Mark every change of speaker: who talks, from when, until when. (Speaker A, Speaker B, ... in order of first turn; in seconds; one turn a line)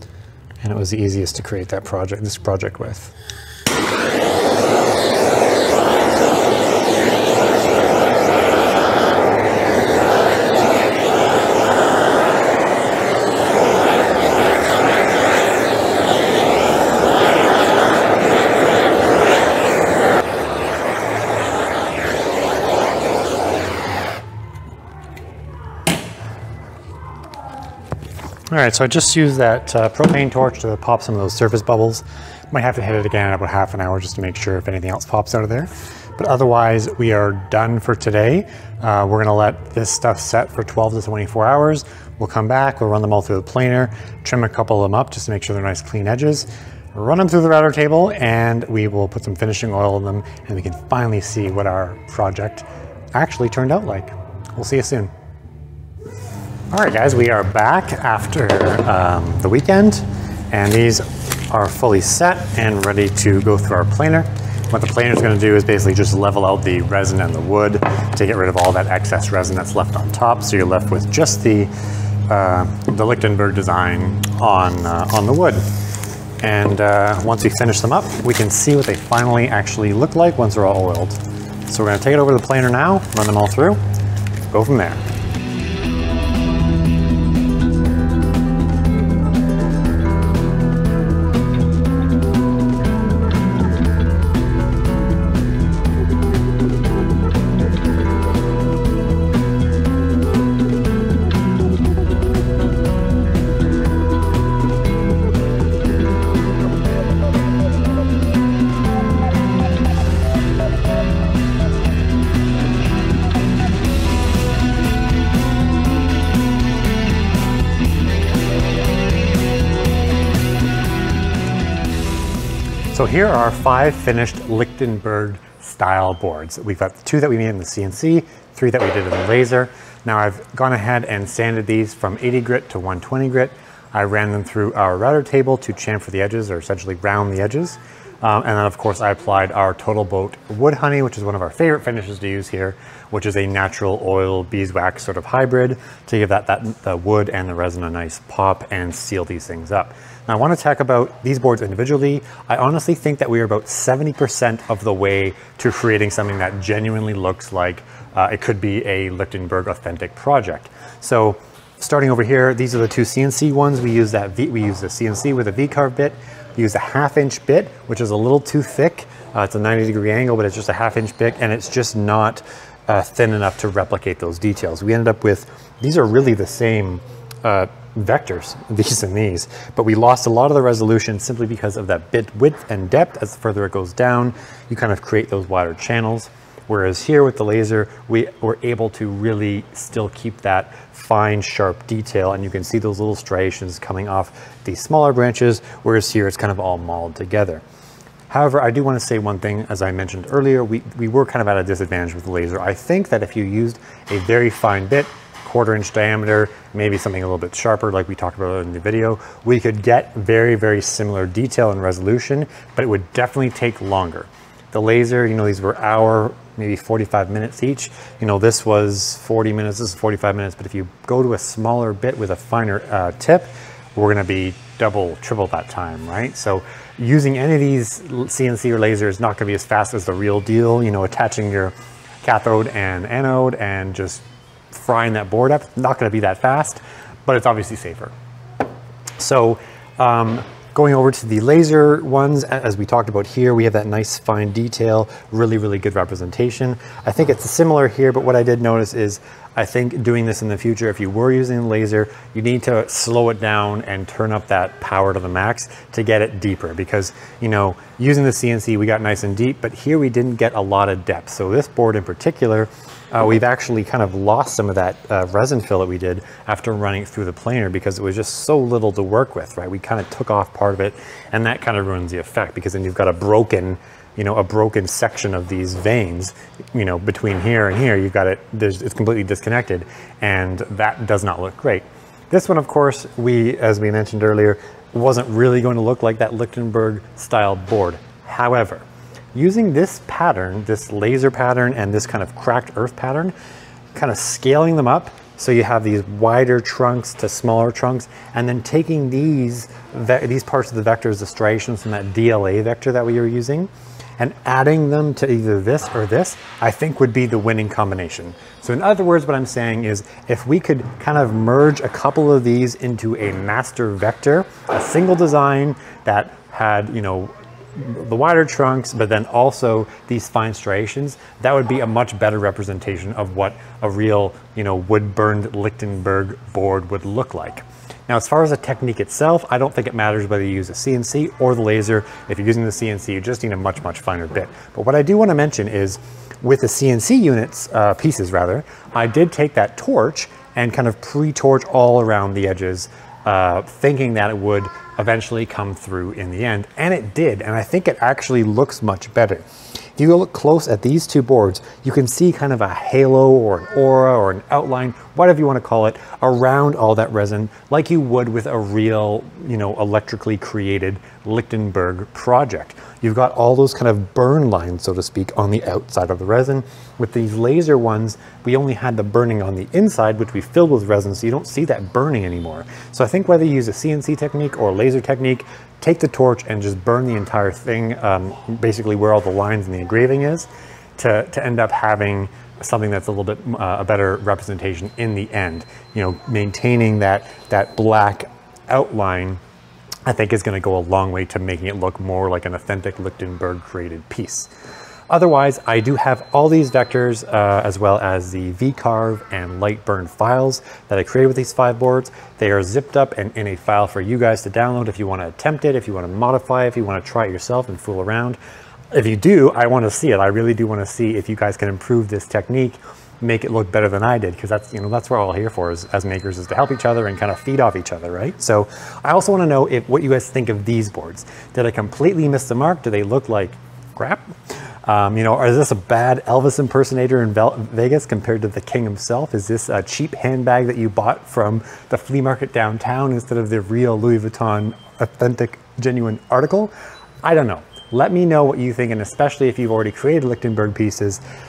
Speaker A: 0.6-3.1
Speaker A: 28.5-55.1
Speaker A: 56.7-71.7
Speaker A: 72.3-75.6
Speaker A: 76.4-83.8
Speaker A: 84.5-85.0
Speaker A: 122.9-197.6
Speaker A: 198.3-238.1
Speaker A: 239.2-288.8
Speaker A: 289.4-293.3
Speaker A: 293.9-349.4
Speaker A: 350.0-389.4
Speaker A: 390.1-394.5
Speaker A: 395.1-408.4
Speaker A: 408.9-424.3
Speaker A: 424.9-436.7
Speaker A: 437.2-441.2